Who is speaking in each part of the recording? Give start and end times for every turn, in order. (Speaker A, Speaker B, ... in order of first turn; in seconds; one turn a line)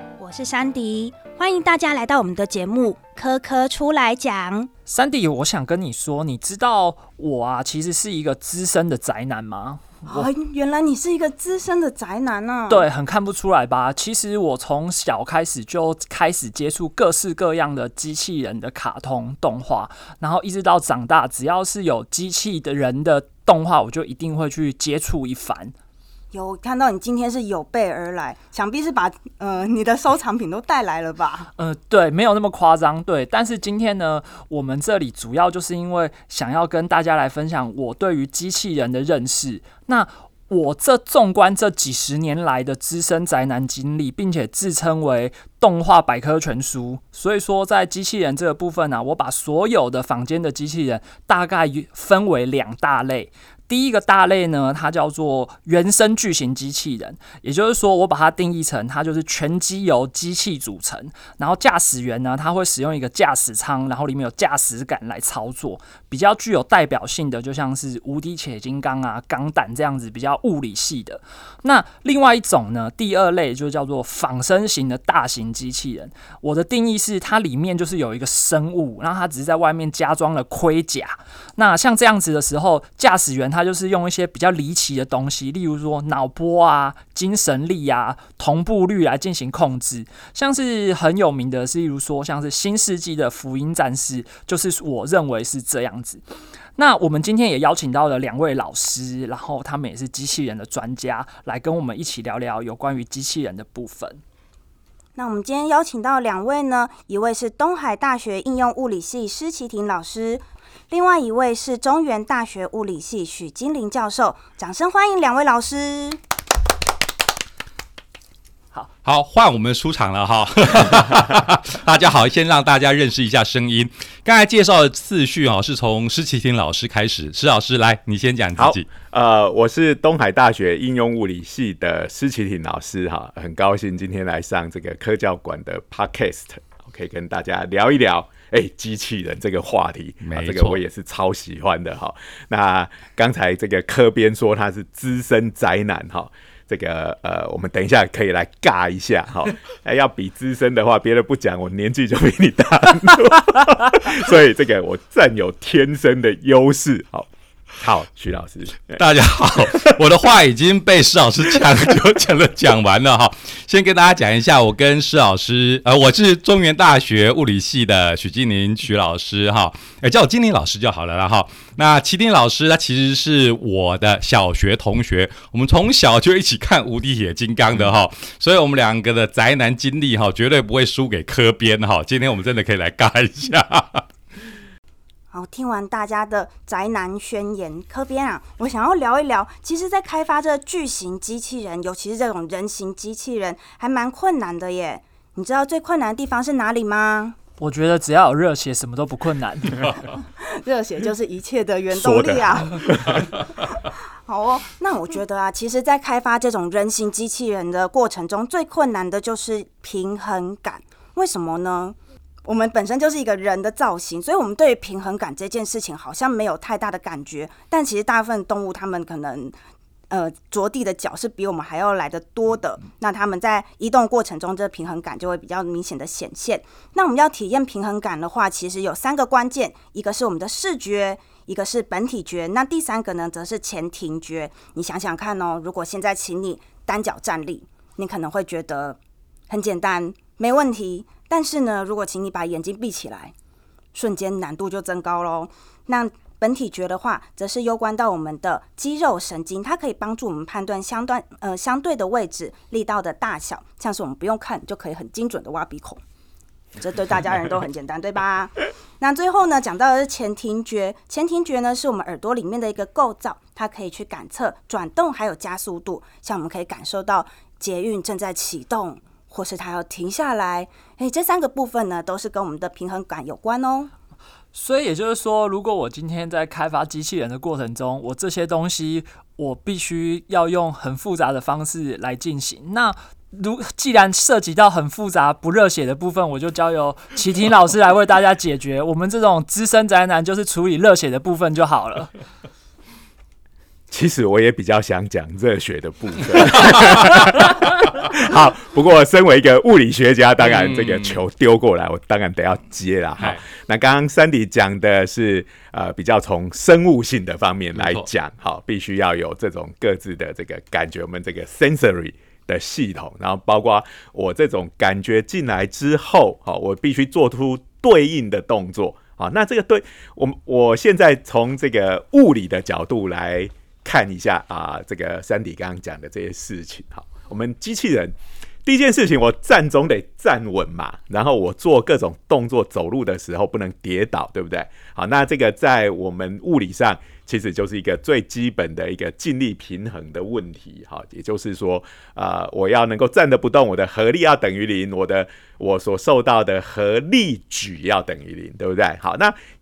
Speaker A: 0.2-4.7
Speaker B: 4.9-10.3
Speaker A: 10.1-12.9
Speaker B: 12.7-25.7
Speaker A: 26.3-31.5
Speaker B: 31.6-96.2
Speaker B: 96.8-104.2
Speaker A: 105.2-116.2
Speaker C: 119.0-128.9
Speaker D: 128.6-159.0
Speaker C: 140.2-140.8
Speaker C: 158.9-184.1
Speaker D: 159.6-159.9
Speaker A: 185.3-197.4
Speaker B: 197.6-199.9
Speaker A: 200.4-203.3
Speaker D: 201.9-203.4
Speaker A: 203.9-219.6
Speaker A: 220.1-239.0
Speaker A: 239.5-243.3
Speaker A: 243.9-256.0
Speaker A: 256.8-273.9
Speaker B: 274.5-292.1
Speaker D: 293.9-349.4
Speaker C: 300.4-301.2
Speaker C: 307.7-308.1